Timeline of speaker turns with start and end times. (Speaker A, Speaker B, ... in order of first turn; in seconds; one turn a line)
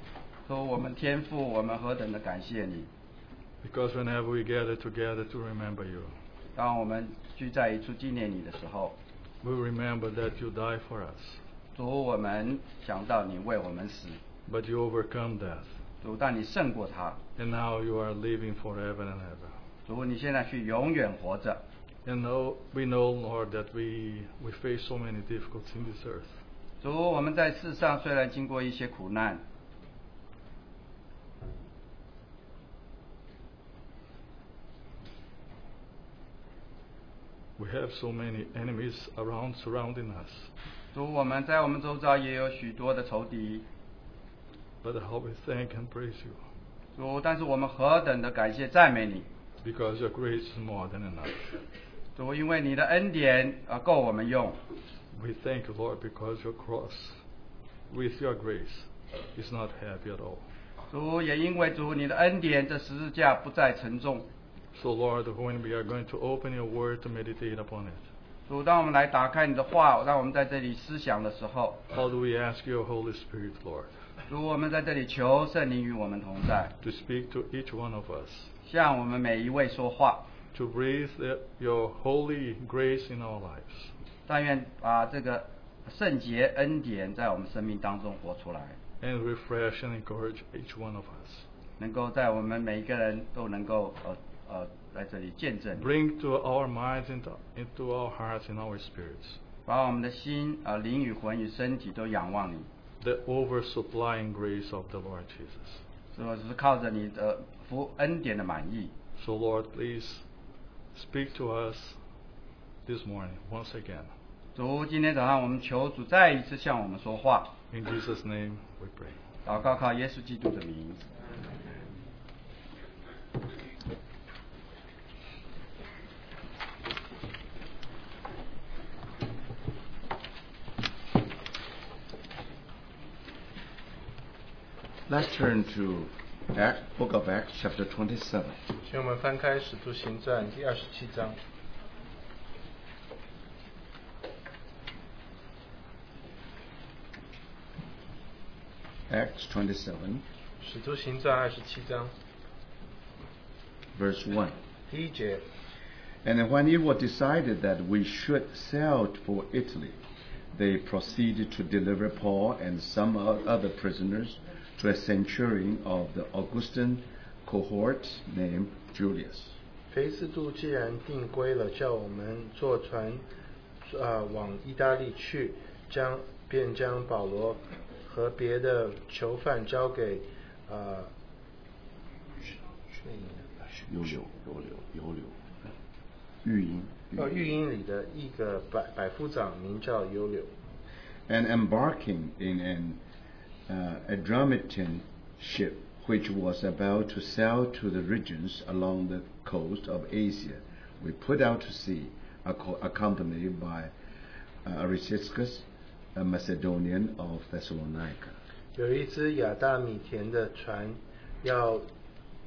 Speaker A: 0.5-2.9
Speaker B: 3.6-6.1
Speaker A: 6.5-9.0
Speaker B: 9.4-11.4
Speaker A: 11.8-14.2
Speaker B: 14.5-15.7
Speaker A: 16.0-17.2
Speaker B: 17.4-19.5
Speaker A: 19.9-21.6
Speaker B: 22.0-26.3
Speaker A: 26.8-29.4
Speaker B: 37.6-40.5
Speaker A: 40.9-43.6
Speaker B: 44.8-46.4
Speaker A: 47.0-49.3
Speaker B: 49.6-51.4
Speaker A: 52.1-54.6
Speaker B: 55.1-57.1
Speaker B: 57.9-60.4
Speaker A: 60.9-64.3
Speaker B: 64.7-68.0
Speaker A: 68.5-71.8
Speaker B: 71.9-73.9
Speaker A: 74.3-76.7
Speaker B: 76.8-78.5
Speaker A: 78.6-80.3
Speaker B: 80.5-83.9
Speaker A: 84.3-88.8
Speaker B: 89.0-91.4
Speaker A: 91.8-95.9
Speaker B: 95.7-99.4
Speaker A: 99.7-102.7
Speaker B: 103.0-105.8
Speaker A: 106.1-108.9
Speaker B: 109.2-110.2
Speaker B: 110.9-112.0
Speaker B: 112.8-114.1
Speaker A: 114.5-117.5
Speaker B: 117.7-119.2
Speaker A: 119.4-121.0
Speaker C: 135.1-138.6
Speaker D: 138.8-141.4
Speaker C: 149.1-150.2
Speaker D: 150.6-152.1
Speaker C: 153.9-154.6
Speaker D: 154.9-155.4
Speaker C: 156.2-160.0
Speaker C: 160.5-169.5
Speaker D: 169.9-173.2
Speaker D: 173.8-181.1
Speaker D: 183.0-183.9
Speaker C: 183.9-185.3
Speaker C: 186.4-187.3
Speaker D: 187.1-190.5
Speaker C: 191.3-193.0
Speaker C: 193.7-203.9
Speaker C: 204.6-208.3
Speaker D: 208.8-211.9